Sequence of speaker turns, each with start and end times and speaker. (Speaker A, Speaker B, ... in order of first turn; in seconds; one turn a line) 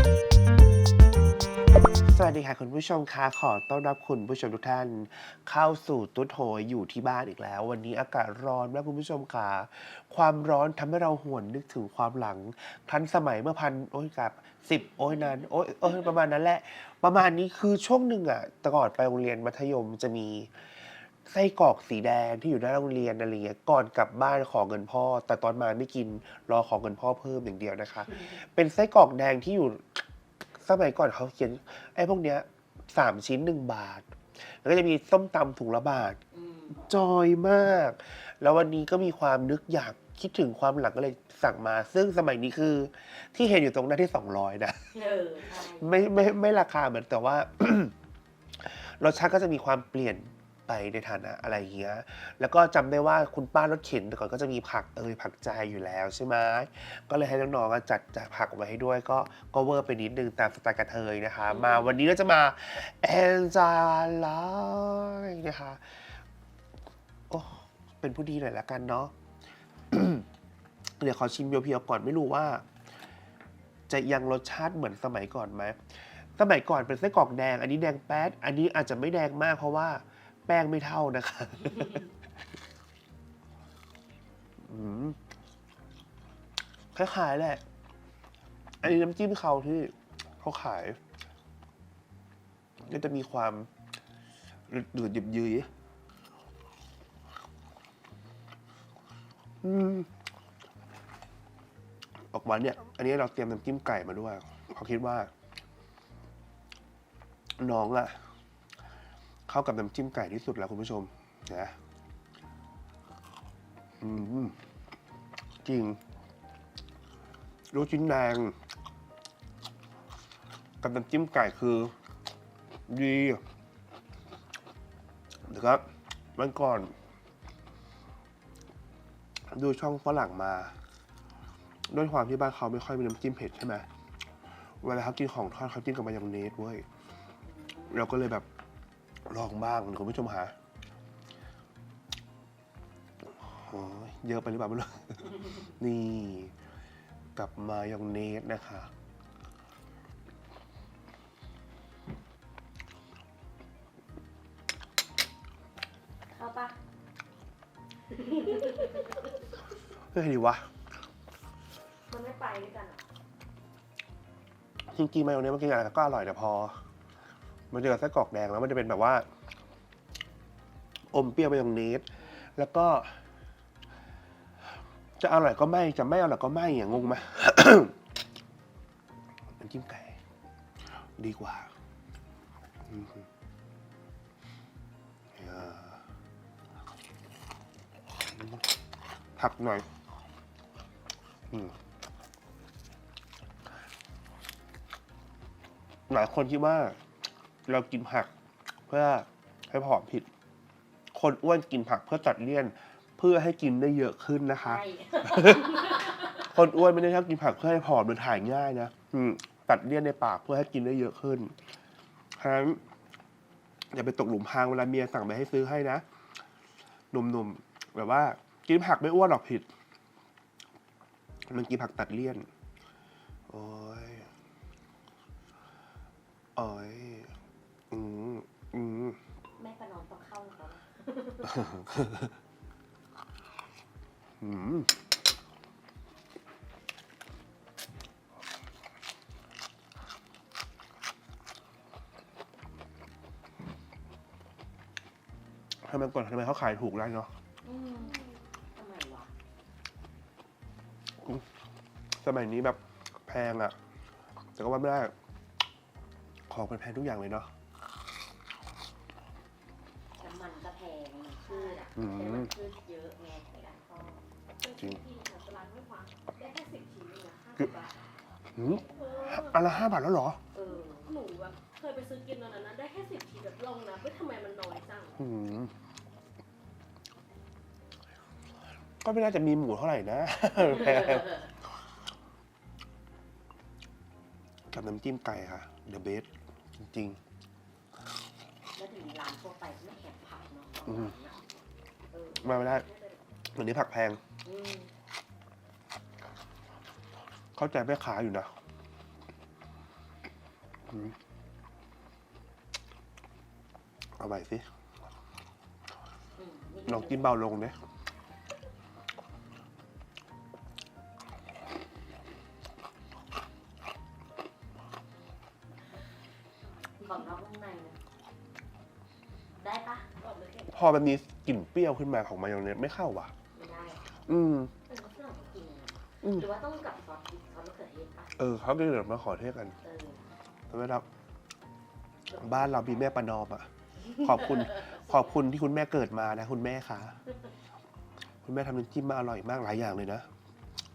Speaker A: 2.0-30.0
Speaker A: 30.6-36.2
Speaker B: 36.3-36.8
Speaker A: 36.7-44.8
Speaker B: 44.9-46.0
Speaker A: 45.5-47.9
Speaker A: 48.6-66.2
Speaker B: 61.5-62.0
Speaker A: 67.3-69.1
Speaker A: 69.9-70.2
Speaker A: 71.0-72.6
Speaker A: 73.9-82.1
Speaker A: 84.6-85.2
Speaker A: 86.9-87.6
Speaker A: 88.8-91.0
Speaker A: 92.8-93.7
Speaker A: 94.7-95.7
Speaker A: 99.6-100.1
Speaker A: 102.3-105.3
Speaker A: 107.6-108.2
Speaker A: 109.5-111.7
Speaker A: 114.0-114.6
Speaker A: 115.6-116.0
Speaker A: 117.7-118.5
Speaker A: 120.8-121.9
Speaker A: 122.9-123.4
Speaker A: 125.5-126.9
Speaker A: 129.5-130.7
Speaker A: 131.9-133.9
Speaker A: 134.8-136.8
Speaker B: 137.4-138.1
Speaker A: 137.9-138.4
Speaker A: 139.2-140.5
Speaker A: 143.3-146.5
Speaker A: 147.3-148.9
Speaker B: 156.3-156.8
Speaker B: 158.3-159.2
Speaker A: 160.1-160.7
Speaker B: 162.1-163.1
Speaker A: 164.9-166.8
Speaker A: 167.7-169.2
Speaker A: 171.1-173.1
Speaker A: 175.2-177.9
Speaker A: 179.6-180.2
Speaker A: 181.2-181.7
Speaker A: 182.9-183.2
Speaker A: 185.3-186.0
Speaker A: 188.3-188.6
Speaker A: 189.4-189.9
Speaker A: 196.1-197.0
Speaker A: 197.7-198.3
Speaker A: 198.9-200.3
Speaker A: 201.1-211.5
Speaker B: 204.6-206.3
Speaker A: 212.4-212.8
Speaker A: 213.9-216.0
Speaker A: 217.1-219.7
Speaker A: 221.5-222.5
Speaker A: 223.5-224.3
Speaker A: 226.6-227.3
Speaker A: 227.9-229.2
Speaker B: 229.6-231.7
Speaker A: 231.5-232.3
Speaker A: 234.4-234.9
Speaker A: 245.8-247.3
Speaker B: 247.6-249.3
Speaker A: 252.2-253.7
Speaker A: 254.6-255.1
Speaker A: 256.5-257.5
Speaker B: 260.2-264.2
Speaker C: 261.5-261.9
Speaker A: 261.9-262.5
Speaker C: 264.6-268.0
Speaker B: 268.6-269.2
Speaker A: 268.6-270.4
Speaker C: 268.9-269.7
Speaker B: 270.5-271.1
Speaker C: 270.9-275.2
Speaker A: 275.2-275.7
Speaker A: 279.0-281.5
Speaker A: 284.7-287.2
Speaker B: 288.7-291.4
Speaker B: 292.1-293.2
Speaker A: 292.4-292.8
Speaker A: 293.5-294.2
Speaker B: 294.4-294.9
Speaker A: 297.6-298.5
Speaker A: 304.2-304.7
Speaker B: 306.4-307.4
Speaker A: 306.9-307.7
Speaker B: 317.0-318.0
Speaker B: 319.6-320.1
Speaker C: 320.2-320.7
Speaker A: 320.7-323.3
Speaker B: 323.5-324.2
Speaker A: 324.2-324.7
Speaker B: 324.9-328.4
Speaker A: 328.4-329.7
Speaker B: 329.8-330.2
Speaker A: 330.7-331.1
Speaker B: 332.3-333.1
Speaker A: 332.4-337.1
Speaker B: 334.3-335.3
Speaker A: 338.4-340.3